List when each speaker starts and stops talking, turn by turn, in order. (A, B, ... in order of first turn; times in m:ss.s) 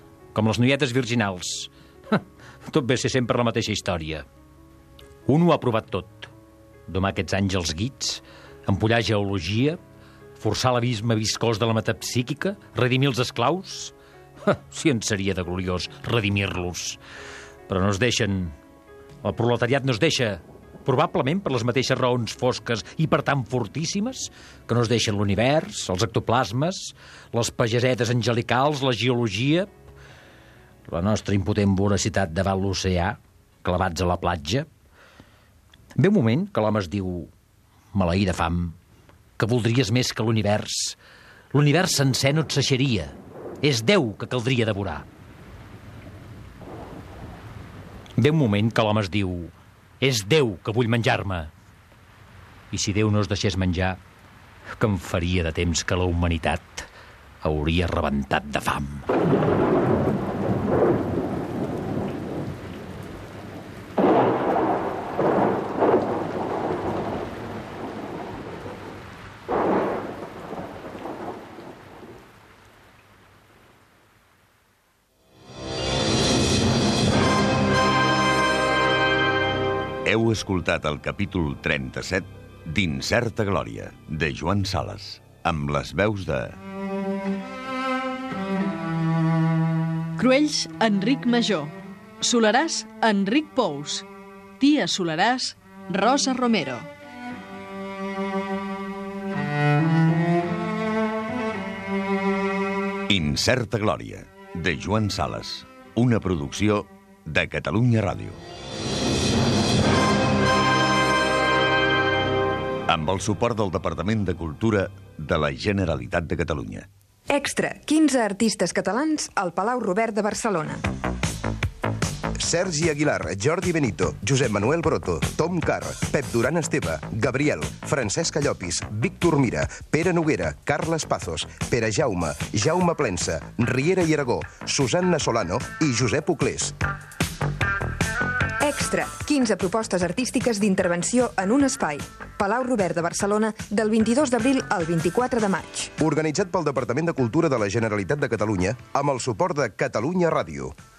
0:00.3-0:04.2 A
0:05.2-0:06.3 A
0:06.9-0:09.8 A
0:10.4-0:13.9 A
0:14.4-0:17.0 A
0:17.7-0:18.5 A
0:19.2-0:29.7 A
0:30.9-0:34.7 A
0:36.0-0:37.3 A
0:37.9-0:38.8 A
0:39.4-0:41.0 A
0:41.5-0:45.1 A
0:48.2-0:51.5 A
0:52.7-0:54.0 A
0:54.8-0:56.9 A
0:57.4-0:59.1 A
1:20.1-1:26.6 B
1:30.2-1:34.1 C
1:34.6-1:36.9 C
1:43.1-1:48.4 B
1:52.9-1:56.9 B
1:57.3-2:00.8 D
2:02.4-2:16.7 E
2:18.6-2:25.9 D
2:26.0-2:30.7 E